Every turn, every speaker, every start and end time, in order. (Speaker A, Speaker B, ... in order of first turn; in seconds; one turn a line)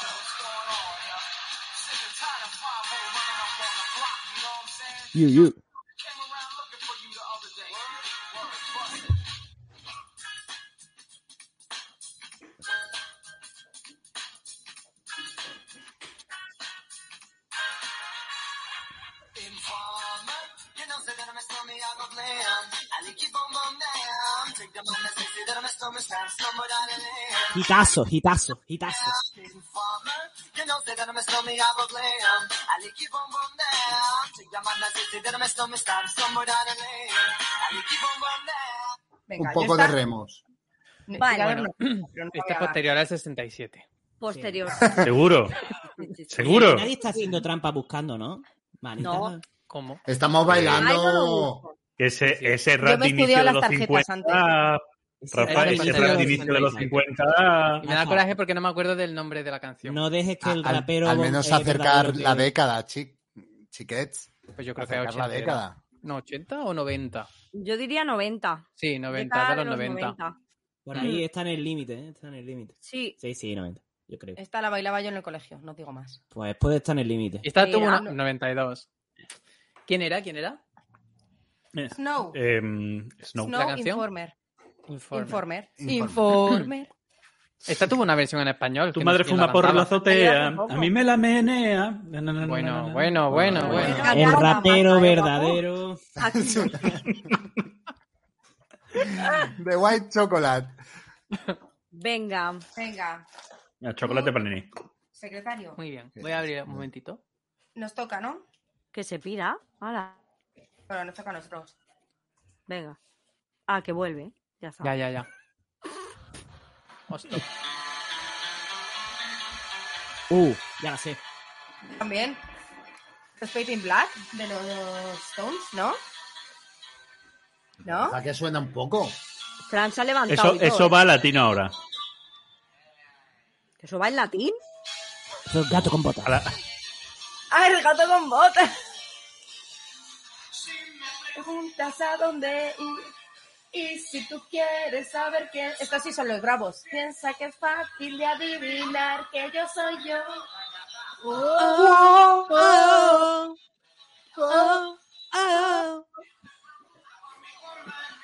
Speaker A: 5.1-5.6
Speaker A: 27.5-29.2
Speaker B: 39.3-40.0
Speaker C: 39.4-40.4
Speaker B: 41.1-42.8
Speaker D: 41.2-41.6
Speaker E: 41.5-43.9
Speaker D: 44.2-45.1
Speaker A: 44.3-44.7
Speaker F: 45.0-45.6
Speaker D: 46.0-46.5
Speaker F: 46.3-46.9
Speaker A: 46.4-49.4
Speaker D: 49.0-49.4
Speaker E: 49.7-50.0
Speaker C: 50.1-51.6
Speaker F: 50.5-50.8
Speaker D: 50.7-51.7
Speaker F: 52.0-57.9
Speaker E: 52.2-52.6
Speaker B: 52.8-54.6
Speaker A: 55.2-57.0
Speaker E: 55.5-56.9
Speaker A: 57.8-58.3
Speaker E: 57.9-60.0
Speaker A: 59.8-62.5
Speaker C: 60.4-65.8
Speaker E: 64.6-67.3
Speaker D: 67.5-70.4
Speaker E: 68.8-70.2
Speaker A: 70.9-74.4
Speaker D: 71.0-71.2
Speaker D: 72.8-73.2
Speaker B: 74.4-76.2
Speaker A: 76.3-77.5
Speaker E: 77.4-78.9
Speaker D: 77.6-78.0
Speaker B: 77.6-78.2
Speaker E: 79.9-80.6
Speaker F: 81.7-83.6
Speaker B: 82.0-82.4
Speaker B: 83.4-84.3
Speaker E: 83.5-84.0
Speaker E: 84.9-85.4
Speaker B: 85.1-86.9
Speaker C: 85.8-86.3
Speaker E: 87.7-90.0
Speaker F: 89.0-94.0
Speaker D: 90.0-90.9
Speaker E: 92.4-94.1
Speaker C: 93.3-94.0
Speaker D: 93.6-95.6
Speaker B: 93.7-95.2
Speaker A: 94.0-96.0
Speaker C: 96.2-97.1
Speaker D: 96.2-97.0
Speaker C: 99.5-100.7
Speaker D: 101.9-102.7
Speaker B: 102.8-103.3
Speaker F: 103.8-104.7
Speaker B: 105.1-105.8
Speaker E: 105.8-107.2
Speaker C: 106.2-106.8
Speaker B: 107.8-108.5
Speaker D: 108.9-110.2
Speaker B: 110.9-111.7
Speaker D: 112.7-113.0
Speaker D: 113.7-114.9
Speaker E: 114.8-115.3
Speaker E: 117.1-117.5
Speaker A: 120.3-121.2
Speaker B: 122.0-122.4
Speaker B: 123.4-126.0
Speaker B: 127.8-128.2
Speaker C: 127.8-129.2
Speaker D: 129.7-131.0
Speaker F: 130.3-131.7
Speaker D: 133.8-134.6
Speaker A: 135.5-136.3
Speaker F: 136.2-136.5
Speaker B: 137.5-138.7
Speaker B: 141.3-143.1
Speaker B: 143.7-150.4
Speaker B: 151.2-151.9
Speaker D: 151.6-153.4
Speaker C: 152.0-152.8
Speaker C: 154.4-154.7
Speaker D: 154.5-154.8
Speaker D: 155.3-156.0